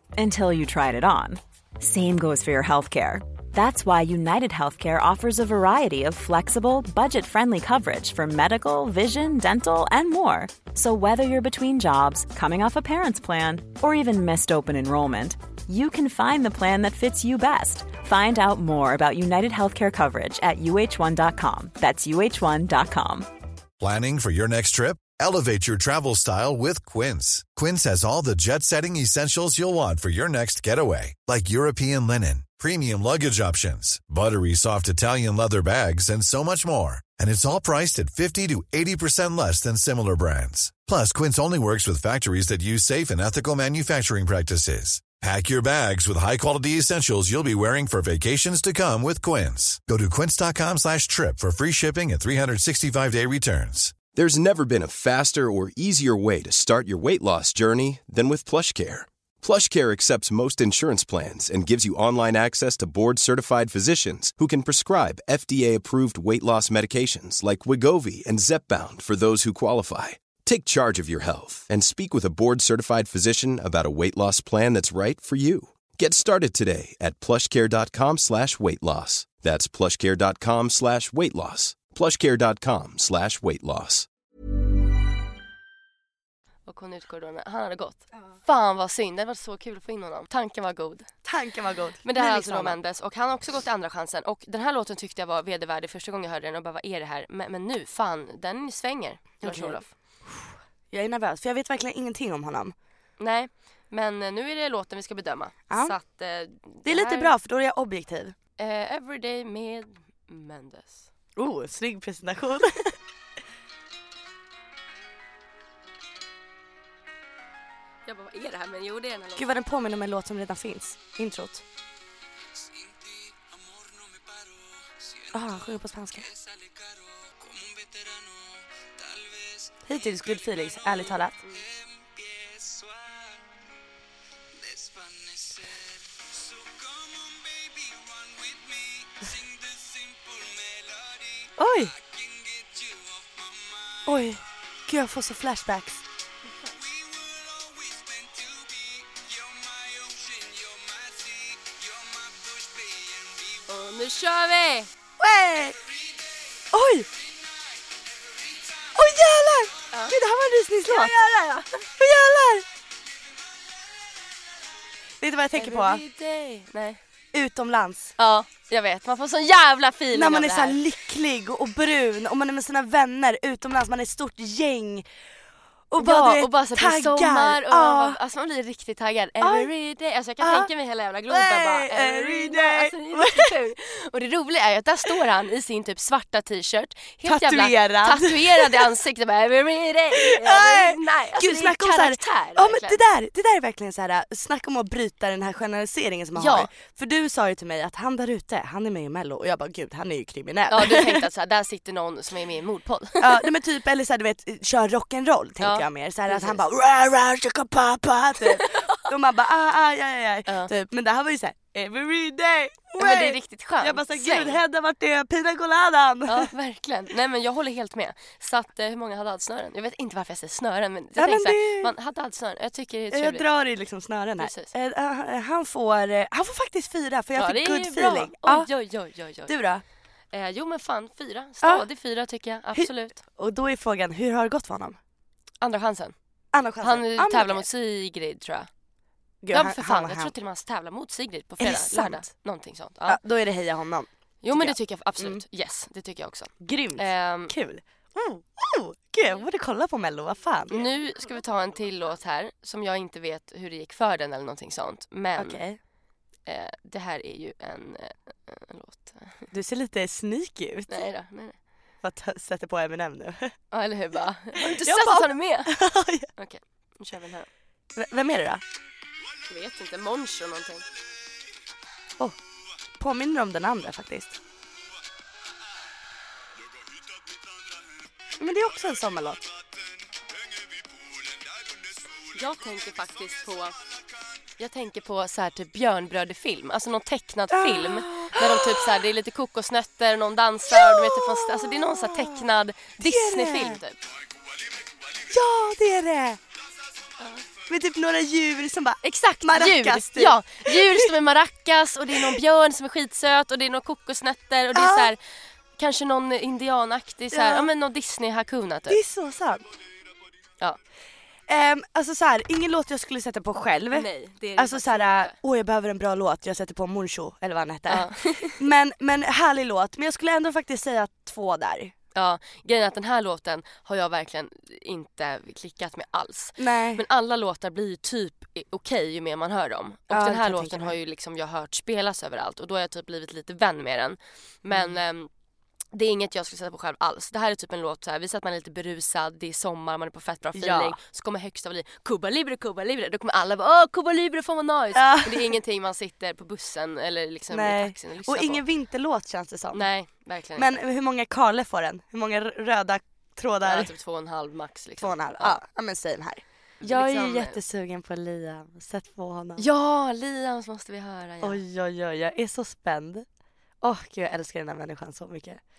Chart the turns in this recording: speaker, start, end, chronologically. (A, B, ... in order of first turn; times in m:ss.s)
0:00.1-0:23.3 A
0:23.8-0:54.0 B
0:54.1-1:24.1 C
1:26.6-1:31.2 D
1:31.2-1:32.8 E
1:32.0-1:39.9 D
1:39.4-1:42.7 E
1:43.2-1:47.3 D
1:45.7-1:45.9 E
1:46.8-1:48.4 E
1:48.6-1:51.1 D
1:51.4-1:52.9 E
1:58.0-1:59.5 D
1:59.4-2:01.6 E
2:05.3-2:06.3 E
2:09.8-2:11.4 E
2:21.6-2:22.0 E
2:24.0-2:26.0 E
2:33.6-2:34.9 D
2:35.2-2:35.8 E
2:36.7-2:37.1 E
2:38.9-2:41.1 E
2:40.8-2:41.8 D
2:42.0-2:42.6 E
2:45.2-2:46.0 E
2:45.5-2:47.0 D
2:47.3-2:48.2 E
2:48.2-2:50.8 D
2:50.1-2:55.0 E
2:55.9-2:58.2 E
2:56.0-3:13.0 D
2:59.4-2:59.7 E
3:00.4-3:00.7 E
3:01.3-3:03.5 E
3:07.2-3:08.9 E
3:10.1-3:21.3 E
3:16.4-3:16.7 D
3:20.7-3:23.4 D
3:23.2-3:36.5 E
3:25.6-3:26.6 D
3:28.4-3:29.0 D
3:30.5-3:30.7 D
3:33.0-3:34.6 D
3:36.3-3:43.5 D
3:41.2-3:41.9 E
3:43.1-3:48.7 E
3:44.4-3:44.7 D
3:47.4-3:49.5 D
3:49.5-3:49.8 E
3:50.3-3:53.2 D
3:51.6-3:51.9 E
3:52.8-3:55.0 E
3:55.6-3:56.2 D
3:56.5-3:57.6 E
3:56.8-3:58.7 D
3:59.4-4:00.3 E
3:59.5-4:03.2 D
4:01.6-4:02.2 E
4:03.1-4:05.4 E
4:04.4-4:07.5 D
4:06.6-4:10.9 E
4:10.7-4:15.6 D
4:15.4-4:15.8 E
4:16.4-4:19.4 D
4:19.5-4:21.1 E
4:20.9-4:21.6 D
4:22.0-4:23.6 E
4:23.7-4:25.8 D
4:24.6-4:26.3 E
4:26.4-4:27.5 D
4:27.9-4:28.6 E
4:29.5-4:30.8 D
4:33.0-4:34.4 E
4:38.4-4:39.5 E
4:42.3-4:43.8 D
4:44.6-4:54.0 D
4:47.5-4:49.0 E
4:50.7-4:52.4 E
4:53.0-4:53.8 E
4:55.3-4:56.4 E
4:57.7-5:01.1 E
4:59.0-5:09.0 D
5:04.7-5:05.1 E
5:07.3-5:07.7 E
5:08.9-5:09.7 E
5:11.5-5:21.9 E
5:13.9-5:15.4 D
5:17.9-5:18.6 D
5:22.1-5:35.3 D
5:26.6-5:27.0 E
5:30.1-5:31.0 E
5:34.7-5:34.9 E
5:35.9-5:48.6 D
5:40.5-5:41.0 E
5:44.9-5:45.6 E
5:47.5-5:49.9 E
5:49.7-5:50.8 D
5:50.6-5:53.9 E
5:53.6-5:55.6 D
5:55.0-5:59.6 E
5:56.8-5:57.6 D
5:59.6-6:01.6 D
6:01.4-6:03.2 E
6:03.8-6:05.6 E